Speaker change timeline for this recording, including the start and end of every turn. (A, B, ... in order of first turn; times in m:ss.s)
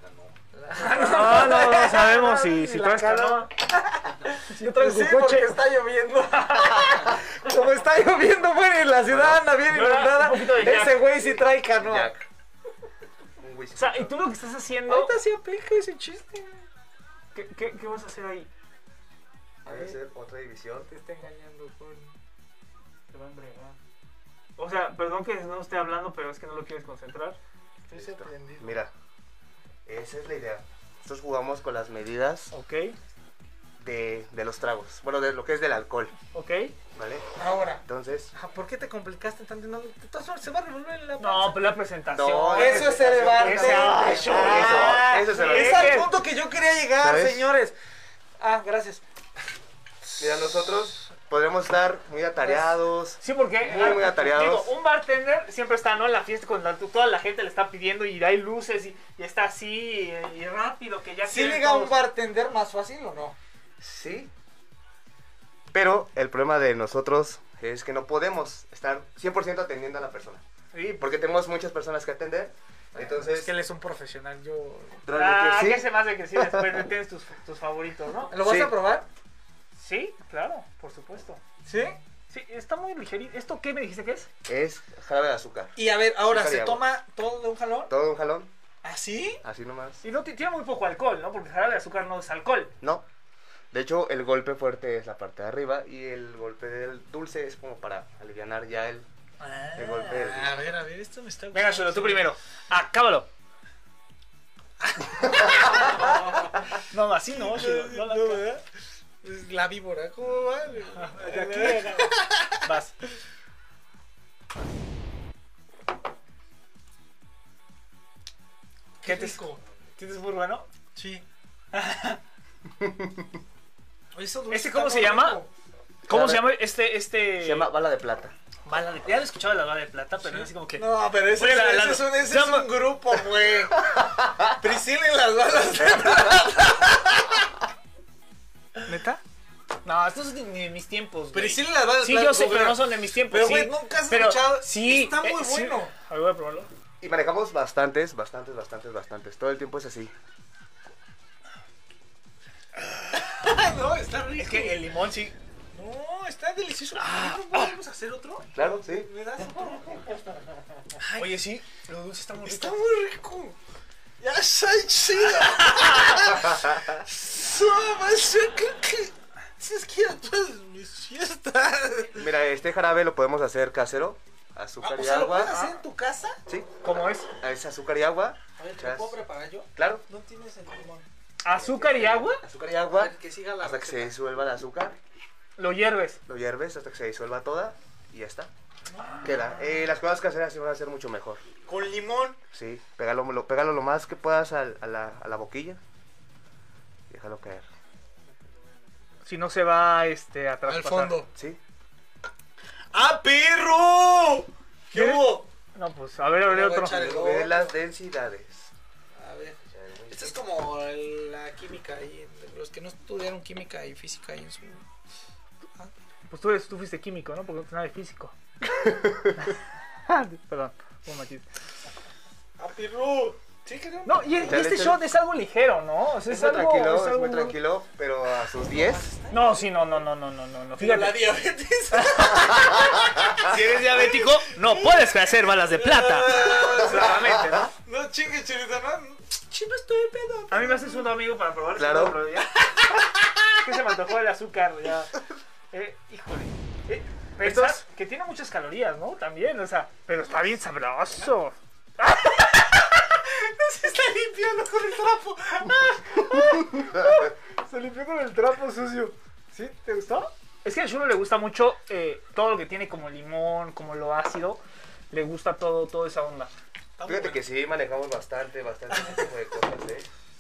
0:00.5-0:12.1 A
0:00.8-0:03.5 B
0:04.5-0:05.5 B
0:09.1-0:09.5 C
0:09.7-0:11.1 B
0:11.8-0:12.2 C
0:13.4-0:14.2 C
0:13.8-0:15.2 B
0:14.9-0:16.7 A
0:17.3-0:18.5 B
0:19.6-0:20.0 A
0:19.6-0:20.9 C
0:20.9-0:22.2 A
0:23.1-0:23.8 A
0:23.1-0:23.4 B
0:24.6-0:27.4 B
0:27.8-0:28.8 A
0:28.0-0:28.9 C
0:29.9-0:32.5 C
0:32.5-0:33.0 B
0:33.8-0:36.2 C
0:36.3-0:36.8 B
0:37.0-0:37.3 C
0:37.4-0:41.7 A
0:37.8-0:38.3 C
0:41.2-0:46.1 B
0:42.1-0:46.1 C
0:42.5-0:47.8 A
0:47.0-0:47.5 C
0:48.4-0:49.0 A
0:50.2-0:54.7 C
0:52.4-0:52.8 A
0:53.2-1:02.0 B
1:01.2-1:03.4 A
1:03.8-1:04.3 C
1:05.7-1:10.4 C
1:10.7-1:11.0 B
1:11.0-1:13.5 C
1:13.0-1:15.0 A
1:15.1-1:16.8 C
1:15.1-1:18.3 B
1:18.3-1:19.1 A
1:18.4-1:18.7 C
1:19.8-1:21.4 B
1:21.6-1:22.0 A
1:22.3-1:24.3 B
1:24.5-1:26.8 C
1:25.8-1:27.9 A
1:27.9-1:28.5 C
1:28.8-1:29.4 A
1:29.4-1:30.0 C
1:30.0-1:32.7 B
1:33.7-1:39.1 C
1:39.4-1:42.4 A
1:39.8-1:40.6 C
1:41.5-1:43.3 B
1:44.8-1:46.6 A
1:46.9-1:48.4 B
1:47.3-1:48.6 A
1:49.2-1:52.6 A
1:51.0-1:52.9 B
1:59.0-1:59.6 A
1:59.0-1:59.4 B
2:00.0-2:00.7 B
2:01.0-2:01.2 A
2:01.7-2:02.2 B
2:02.8-2:03.3 C
2:04.1-2:05.5 A
2:04.5-2:05.4 B
2:06.1-2:07.7 B
2:06.1-2:06.6 C
2:07.4-2:08.3 C
2:08.7-2:12.7 B
2:10.2-2:13.8 A
2:13.9-2:14.4 C
2:14.6-2:17.4 A
2:18.8-2:19.2 A
2:19.8-2:26.7 B
2:21.3-2:25.9 A
2:27.0-2:30.1 C
2:32.9-2:34.8 A
2:34.4-2:35.3 B
2:35.7-2:40.2 A
2:37.0-2:37.7 B
2:38.6-2:39.1 C
2:41.0-2:41.4 A
2:41.2-2:42.8 B
2:42.4-2:43.6 A
2:44.2-2:52.3 A
2:45.6-2:46.2 B
2:46.4-2:47.0 C
2:52.2-2:55.5 C
2:54.8-2:56.4 A
2:55.4-2:55.8 B
2:56.5-2:56.8 C
2:56.8-2:57.3 B
2:57.4-2:59.1 C
2:58.6-3:01.1 A
2:59.8-3:00.0 C
3:01.4-3:02.4 B
3:01.5-3:05.0 C
3:02.9-3:04.2 A
3:05.6-3:06.2 B
3:06.3-3:08.5 C
3:08.9-3:09.6 A
3:09.2-3:11.4 C
3:11.7-3:12.4 A
3:12.5-3:15.8 C
3:17.1-3:17.6 C
3:19.2-3:21.2 B
3:20.6-3:21.3 A
3:21.4-3:21.6 C
3:22.9-3:25.5 A
3:24.9-3:27.0 B
3:26.4-3:27.8 A
3:26.8-3:28.7 C
3:29.1-3:34.8 A
3:29.7-3:30.4 C
3:36.3-3:38.3 B
3:38.7-3:39.5 C
3:40.1-3:41.4 B
3:42.6-3:44.6 A
3:44.0-3:47.6 B
3:44.4-3:45.0 C
3:46.3-3:49.1 C
3:48.5-3:50.0 A
3:49.3-3:51.3 B
3:50.8-4:01.1 A
3:52.0-3:52.5 B
3:52.4-3:53.4 C
3:53.4-3:57.7 B
3:56.5-3:57.7 C
4:00.5-4:02.5 B
4:01.8-4:02.2 C
4:02.6-4:03.4 A
4:03.6-4:05.1 B
4:05.7-4:12.5 B
4:07.4-4:07.8 C
4:13.1-4:16.7 A
4:16.3-4:26.5 B
4:27.0-4:27.4 A
4:27.0-4:30.1 C
4:28.9-4:29.2 A